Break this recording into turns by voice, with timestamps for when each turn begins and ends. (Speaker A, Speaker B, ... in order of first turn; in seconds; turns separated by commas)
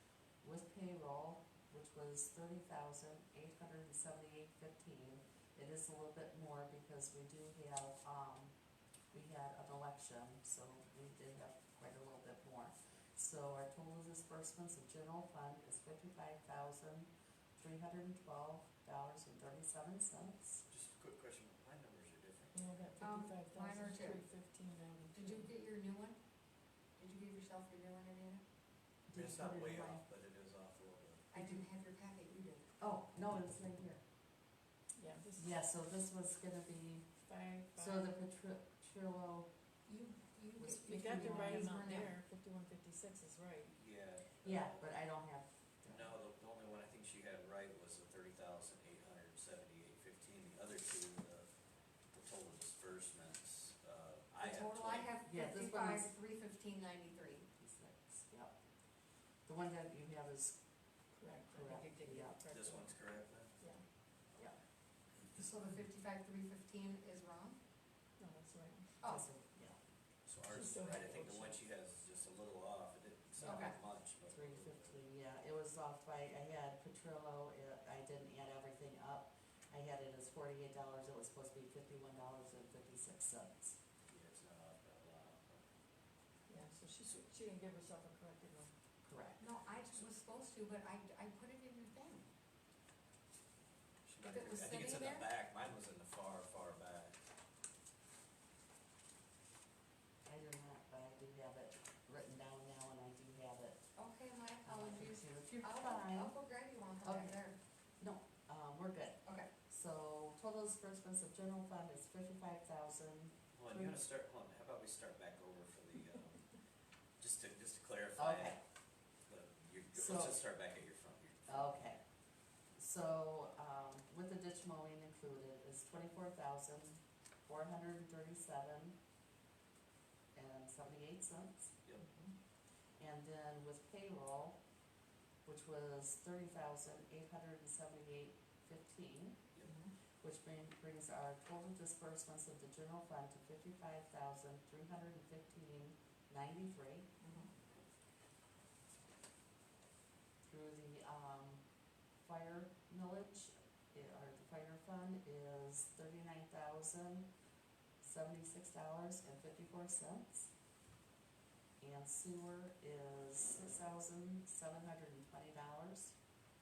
Speaker A: 0.4-8.5, Speaker A: 9.1-20.6, Speaker B: 20.7-22.9, Speaker C: 22.5-25.5, Speaker D: 23.0-24.2, Speaker D: 25.1-26.2, Speaker D: 27.0-28.4, Speaker A: 29.1-30.0, Speaker B: 29.1-31.3, Speaker D: 31.3-32.7, Speaker A: 32.8-34.0, Speaker C: 35.0-35.6, Speaker A: 35.4-37.1, Speaker C: 37.2-38.1, Speaker A: 37.8-39.5, Speaker D: 39.9-42.1, Speaker A: 40.6-41.6, Speaker C: 40.8-43.8, Speaker B: 43.7-44.9, Speaker A: 44.4-46.1, Speaker B: 45.9-51.5, Speaker B: 52.1-55.2, Speaker D: 54.4-57.5, Speaker A: 55.3-56.1, Speaker A: 57.6-58.6, Speaker A: 59.5-60.6, Speaker C: 61.1-63.8, Speaker A: 61.5-62.4, Speaker B: 62.5-63.6, Speaker D: 65.3-67.6, Speaker C: 68.2-69.0, Speaker D: 69.0-69.3, Speaker A: 69.0-69.8, Speaker B: 70.2-75.0, Speaker C: 70.5-71.6, Speaker A: 73.4-83.8, Speaker D: 73.4-73.8, Speaker B: 84.1-85.7, Speaker C: 86.5-88.7, Speaker A: 89.0-89.4, Speaker D: 89.4-92.3, Speaker B: 94.1-97.2, Speaker D: 94.2-95.3, Speaker A: 100.3-103.9, Speaker D: 104.0-107.6, Speaker A: 104.6-106.3, Speaker A: 107.0-107.4, Speaker A: 108.0-114.0, Speaker B: 113.5-116.6, Speaker B: 117.2-118.6, Speaker A: 118.2-118.6, Speaker B: 119.3-121.7, Speaker A: 120.0-120.4, Speaker A: 121.5-122.0, Speaker A: 122.8-129.0, Speaker A: 130.3-131.7, Speaker D: 132.0-132.3, Speaker A: 133.0-134.6, Speaker A: 135.4-139.5, Speaker D: 139.7-139.9, Speaker A: 140.2-147.1, Speaker D: 147.2-147.5, Speaker A: 150.5-151.6, Speaker A: 152.2-157.3, Speaker A: 158.0-160.5, Speaker A: 161.8-166.2